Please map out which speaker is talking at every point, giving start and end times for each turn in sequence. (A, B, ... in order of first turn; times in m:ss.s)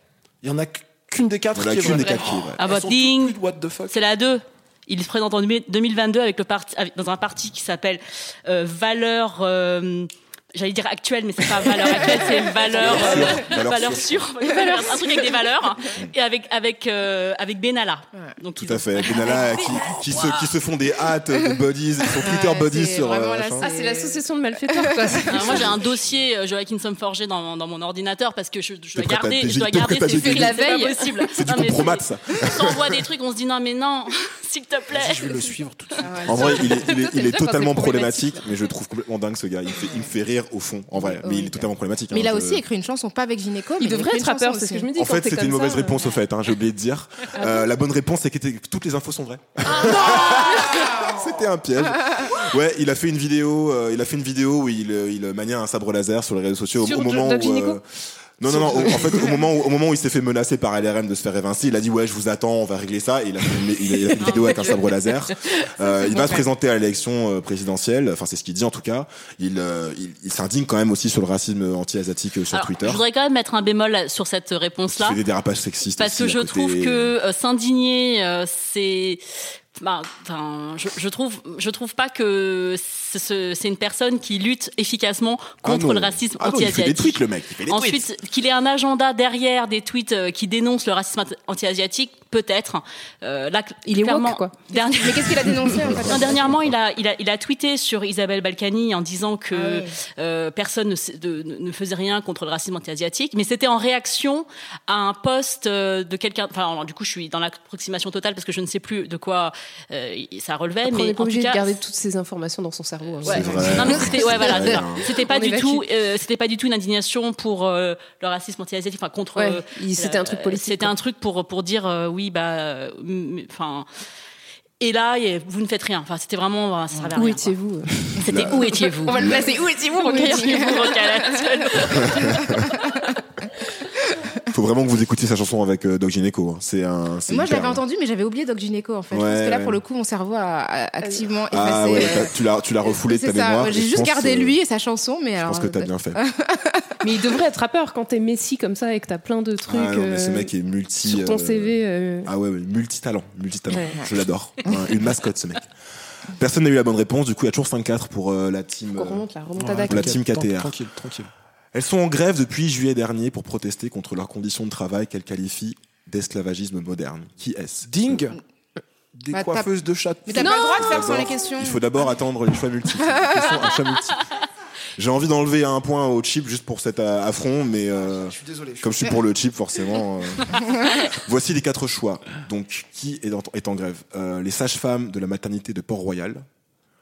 0:00.4-0:03.9 A
0:01.5-0:02.6 B
0:02.6-0:03.4 C
0:03.9-0:20.5 C
0:12.7-0:14.3 B
0:12.8-0:13.4 A
0:18.6-0:23.7 B
0:22.2-0:25.7 D
0:23.6-0:25.6 E
0:25.3-0:26.0 B
0:25.3-0:35.6 C
0:29.0-0:30.6 B
0:30.1-0:31.3 E
0:31.4-0:32.9 B
0:34.9-0:36.7 A
0:36.2-0:38.5 E
0:36.3-0:42.6 B
0:41.0-0:44.9 D
0:43.8-0:46.2 E
0:45.0-1:13.0 B
0:47.4-0:47.7 E
0:49.8-0:50.9 E
0:56.8-0:57.8 E
0:58.7-0:59.3 E
1:12.5-1:15.2 C
1:14.9-1:17.2 B
1:16.0-1:19.2 C
1:19.8-1:51.7 C
1:25.6-1:28.1 B
1:33.8-1:34.6 E
1:34.7-1:36.4 D
1:35.7-1:36.7 B
1:39.5-1:39.9 D
1:50.9-1:55.8 E
1:53.2-1:55.0 B
1:53.2-2:03.9 C
1:59.4-2:00.9 E
2:04.8-2:07.6 C
2:07.2-2:08.2 E
2:08.2-2:09.4 C
2:08.3-2:09.4 B
2:09.1-2:11.2 E
2:09.1-2:10.9 D
2:10.0-2:12.5 C
2:12.0-2:12.6 B
2:12.4-2:13.2 D
2:14.5-2:17.8 B
2:17.3-2:22.3 D
2:19.1-2:19.8 B
2:21.5-2:24.6 B
2:22.9-2:27.0 D
2:25.4-2:26.2 B
2:27.0-2:30.5 E
2:29.7-2:35.7 B
2:31.0-2:32.3 E
2:33.7-2:34.0 E
2:36.4-2:39.3 B
2:39.0-2:40.2 E
2:39.6-2:41.3 A
2:39.9-2:40.8 B
2:41.7-2:48.2 B
2:47.8-2:48.4 A
2:49.2-2:50.9 A
2:49.3-2:49.7 D
2:50.2-2:51.8 D
2:50.4-2:51.1 E
2:50.8-2:54.2 B
2:55.0-3:06.5 B
2:58.1-2:58.9 A
3:00.6-3:01.0 D